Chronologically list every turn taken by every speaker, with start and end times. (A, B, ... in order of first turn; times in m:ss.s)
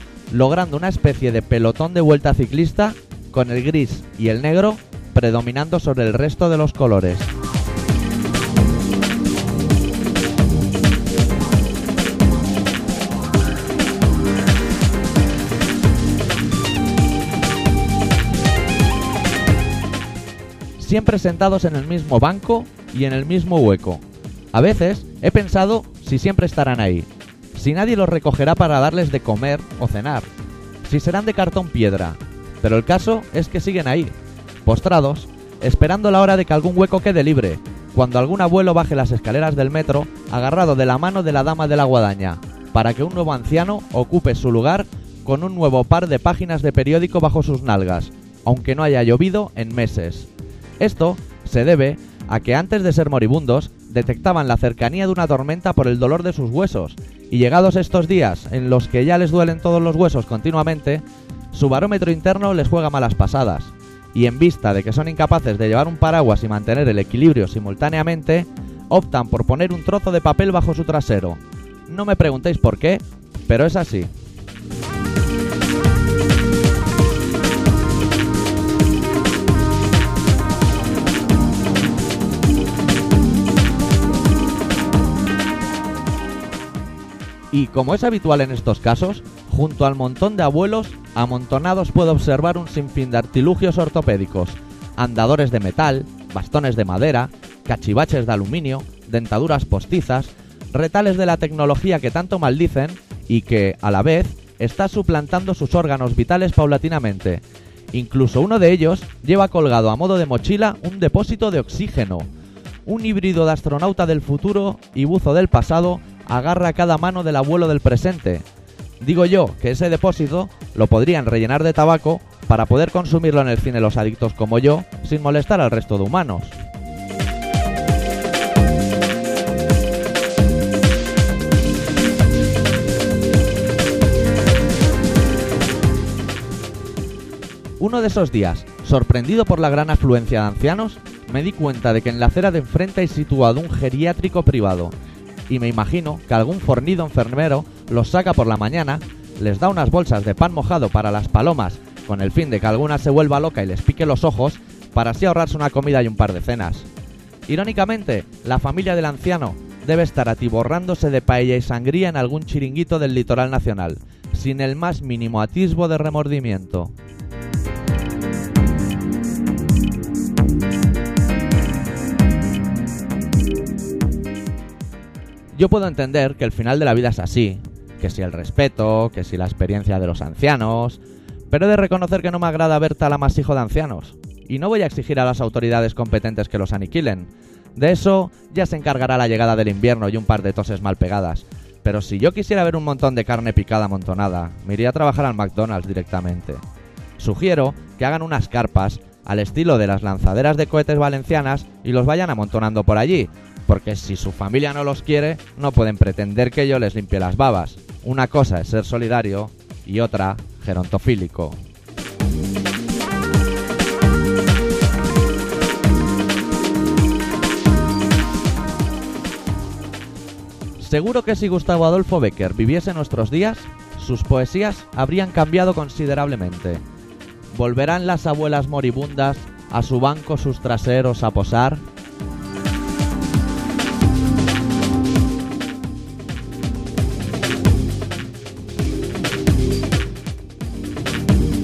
0:00.3-0:07.3 A
0:20.8-0:30.3 A
0:30.8-0:34.1 A
0:34.6-0:50.3 A
0:50.8-1:14.1 A
1:27.5-1:52.3 A
1:52.9-1:58.5 A
1:59.0-2:06.6 A
2:17.8-2:25.0 A
2:25.5-2:36.9 A
2:37.5-2:46.9 A
2:55.5-3:16.6 A
3:17.2-3:31.6 A
3:40.8-3:46.8 A
3:47.5-3:51.8 A